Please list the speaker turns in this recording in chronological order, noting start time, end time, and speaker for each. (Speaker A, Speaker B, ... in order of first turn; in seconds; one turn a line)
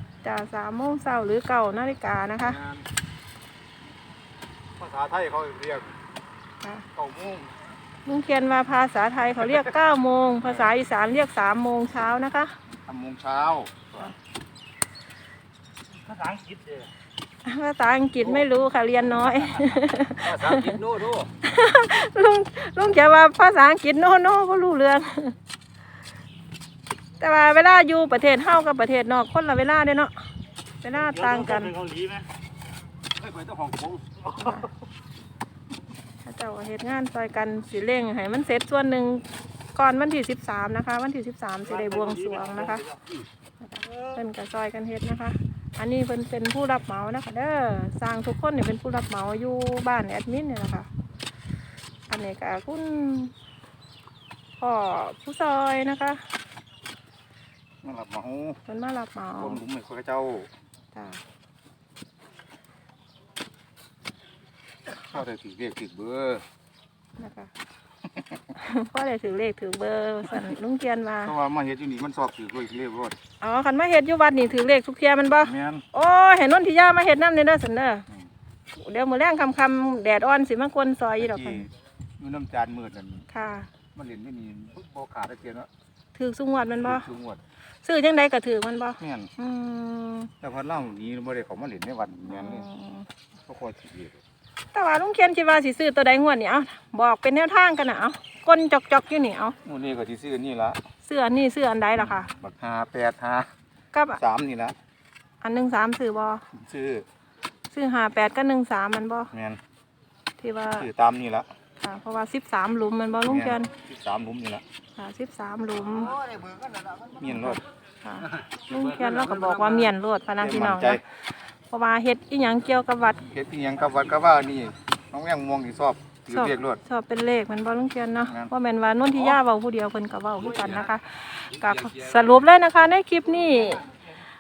Speaker A: 0.2-2.6
Speaker B: 2.4-2.9
Speaker B: 4.8-5.9
Speaker B: 7.0-7.5
Speaker A: 8.1-12.5
Speaker B: 12.9-14.1
Speaker C: 16.0-16.9
Speaker A: 17.4-20.7
Speaker D: 20.2-21.3
Speaker A: 21.4-25.4
Speaker A: 27.2-30.3
Speaker A: 30.8-31.7
Speaker C: 30.9-32.3
Speaker D: 33.2-34.0
Speaker C: 34.2-34.7
Speaker A: 34.4-34.7
Speaker A: 36.2-39.2
Speaker A: 39.8-42.9
Speaker C: 41.7-43.0
Speaker A: 43.6-50.9
Speaker A: 52.1-53.3
Speaker A: 54.6-56.2
Speaker B: 57.8-58.6
Speaker A: 58.7-59.6
Speaker B: 59.4-60.5
Speaker A: 60.9-61.2
Speaker B: 65.0-66.4
Speaker A: 67.2-67.5
Speaker A: 68.5-71.3
Speaker B: 71.3-73.2
Speaker A: 73.4-78.1
Speaker B: 75.4-75.8
Speaker A: 78.7-81.7
Speaker B: 81.2-81.7
Speaker B: 82.2-83.3
Speaker A: 83.3-83.7
Speaker B: 84.0-85.7
Speaker A: 86.2-87.1
Speaker B: 86.8-87.4
Speaker A: 87.8-90.3
Speaker B: 89.0-89.3
Speaker B: 90.4-92.7
Speaker A: 92.3-93.1
Speaker B: 93.5-94.2
Speaker A: 94.7-99.6
Speaker B: 99.7-100.8
Speaker A: 101.0-102.3
Speaker B: 102.0-103.5
Speaker A: 103.9-104.2
Speaker B: 104.2-104.8
Speaker A: 105.4-106.4
Speaker B: 106.5-107.0
Speaker A: 107.7-109.3
Speaker B: 109.3-109.6
Speaker A: 110.4-110.9
Speaker B: 110.8-111.5
Speaker A: 111.8-113.7
Speaker B: 113.3-114.6
Speaker A: 115.0-116.2
Speaker D: 116.2-117.1
Speaker B: 117.2-117.6
Speaker A: 117.2-121.0
Speaker D: 118.7-119.9
Speaker B: 120.4-121.0
Speaker A: 121.7-123.3
Speaker B: 123.2-126.8
Speaker A: 126.3-133.9
Speaker D: 130.4-130.9
Speaker D: 131.6-132.4